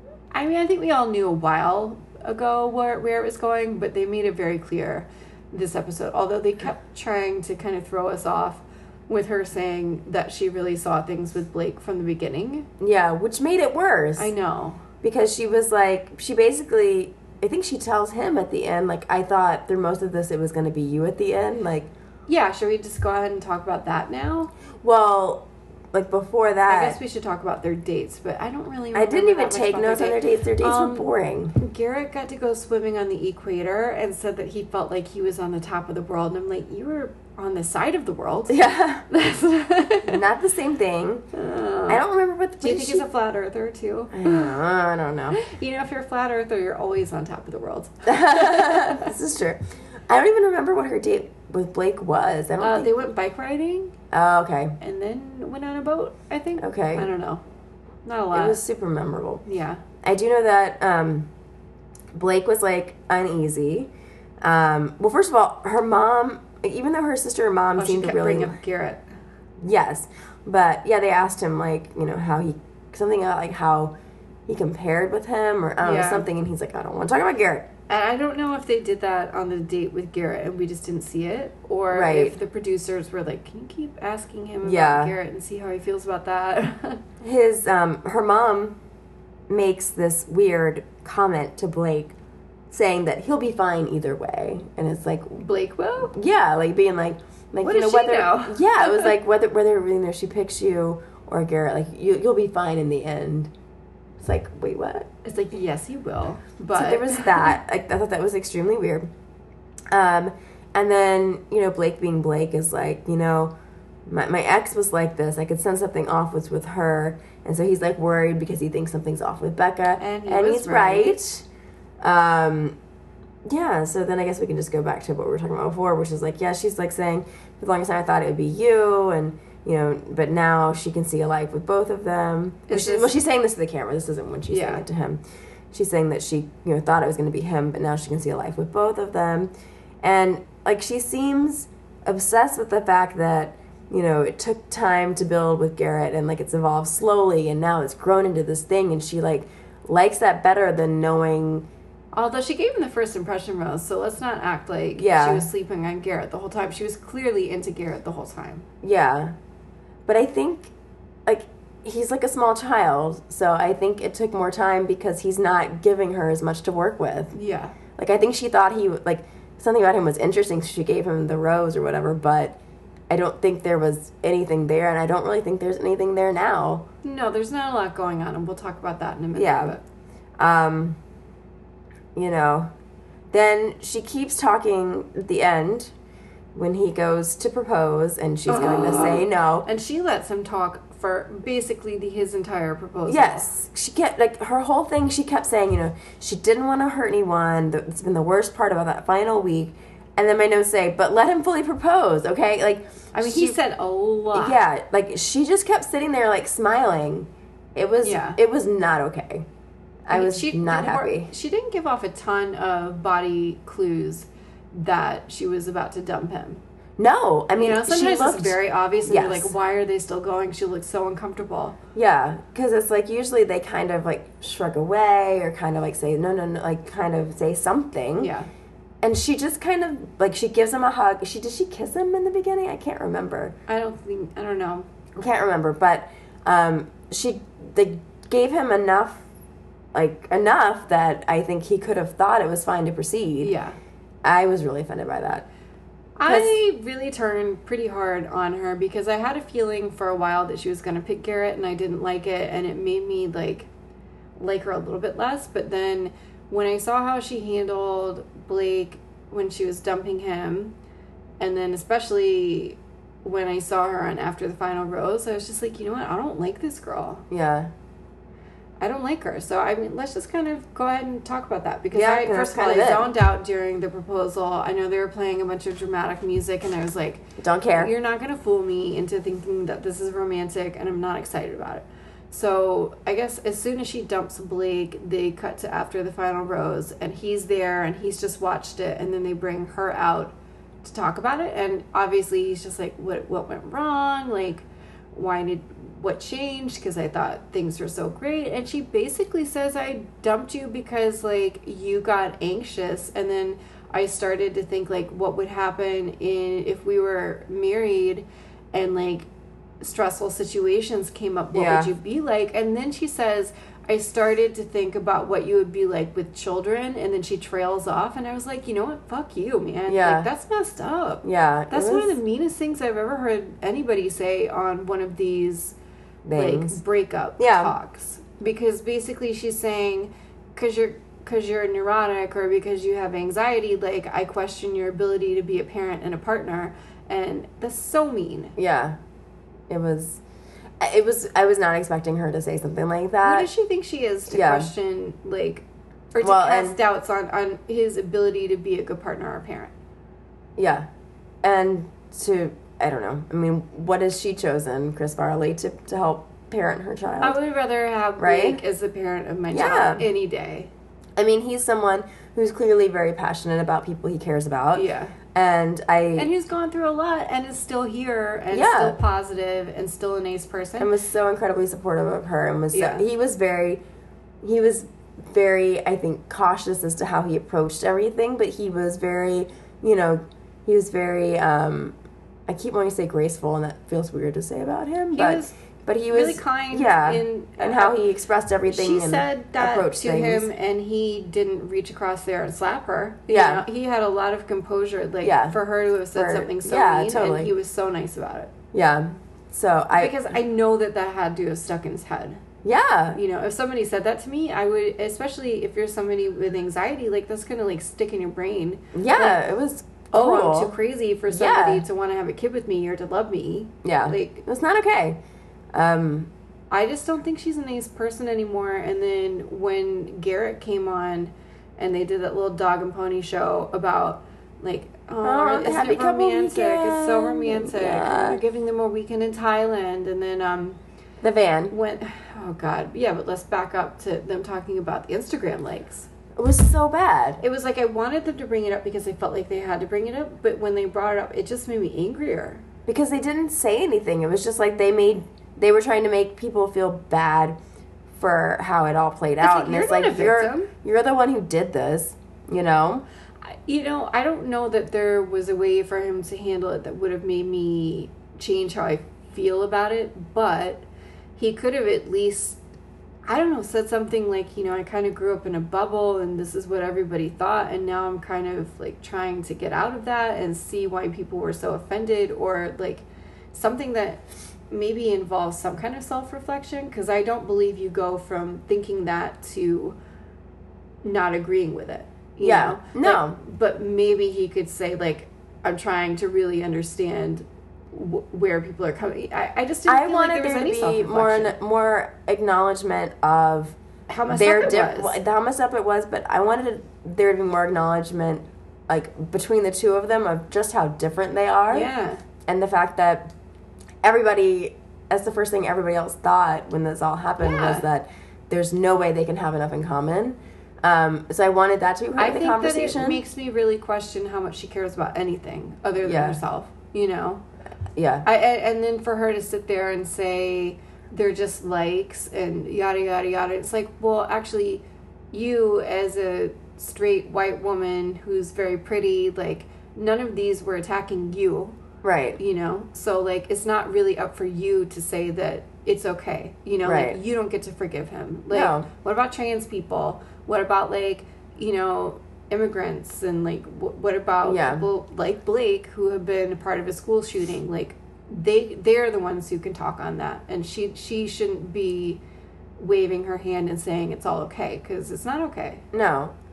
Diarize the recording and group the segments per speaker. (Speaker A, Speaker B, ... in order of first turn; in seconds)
Speaker A: 0.3-12.7, 14.2-14.8, 22.3-24.5, 26.7-40.2, 41.3-42.0, 42.6-44.6, 45.3-49.1, 52.6-53.9, 54.8-57.4, 58.0-58.6, 59.4-59.8, 67.8-69.0, 75.8-76.3, 77.9-87.0, 95.4-96.1, 97.6-99.2, 105.2-107.5, 120.0-121.2, 132.7-133.1, 134.5-134.8, 152.1-158.7, 167.3-167.8, 177.0-179.8, 188.5-193.5, 203.1-204.6, 208.0-208.4, 210.1-216.6, 217.6-221.8, 228.2-228.5, 233.7-234.9, 243.4-243.8, 246.2-253.7, 254.4-260.7, 261.4-267.2, 268.8-309.3, 309.8-325.8, 326.3-338.5, 343.2-349.7, 357.2-360.7, 364.7-365.1, 366.1-370.9, 372.7-373.0, 385.1-385.5, 386.1-388.0, 388.7-398.5, 399.9-402.4, 403.1-409.4, 410.1-414.4, 416.7-430.8, 431.7-436.1, 437.4-442.6, 449.4-450.7, 453.5-462.6, 463.3-480.0, 481.0-491.6, 494.1-495.1, 501.7-502.2, 507.4-507.9, 512.2-517.4, 518.2-531.8, 532.4-552.2, 552.8-555.8
Speaker B: 12.8-14.3, 15.0-21.9, 24.8-27.0, 28.9-31.5, 38.5-39.0, 40.0-41.2, 41.9-43.0, 44.1-45.4, 48.0-52.9, 54.1-54.8, 56.6-57.1, 58.3-59.4, 60.0-61.3, 62.1-68.6, 69.6-73.9, 74.5-77.7, 81.9-82.3, 84.6-85.1, 87.2-88.8, 89.5-92.1, 92.7-95.4, 96.1-103.5, 104.2-105.1, 106.7-109.1, 109.9-113.5, 114.1-121.5, 122.0-122.8, 123.5-135.2, 135.7-139.5, 140.0-151.7, 154.9-155.5, 158.8-159.3, 160.1-160.7, 161.2-167.3, 168.0-172.6, 173.1-176.8, 179.3-179.8, 180.4-181.0, 182.2-182.7, 183.3-185.9, 186.5-189.7, 193.1-203.6, 204.3-209.4, 210.1-211.3, 217.0-219.5, 221.9-228.3, 229.0-233.5, 235.2-239.2, 239.9-243.5, 244.2-245.4, 246.2-246.6, 267.3-267.7, 271.9-273.1, 277.4-277.9, 311.5-311.9, 319.9-320.3, 321.2-322.1, 326.2-326.8, 327.4-327.7, 338.6-339.0, 339.7-340.2, 340.8-343.5, 344.3-344.7, 346.2-346.8, 350.6-350.9, 351.4-357.4, 358.2-358.6, 359.5-360.0, 361.1-366.3, 368.5-369.0, 370.8-373.8, 374.4-381.9, 382.5-390.5, 393.3-393.6, 395.2-395.6, 396.1-397.5, 398.7-400.1, 402.6-403.2, 408.9-410.8, 411.3-411.8, 413.8-415.2, 415.7-416.3, 425.2-428.4, 431.2-431.7, 436.4-437.4, 442.9-447.6, 448.1-453.0, 482.4-483.4, 489.9-493.8, 494.3-501.9, 502.4-503.3, 504.0-513.2, 516.0-516.4, 517.9-518.2, 532.0-532.4, 536.8-537.2, 538.5-538.9, 544.4-544.8, 555.9-556.3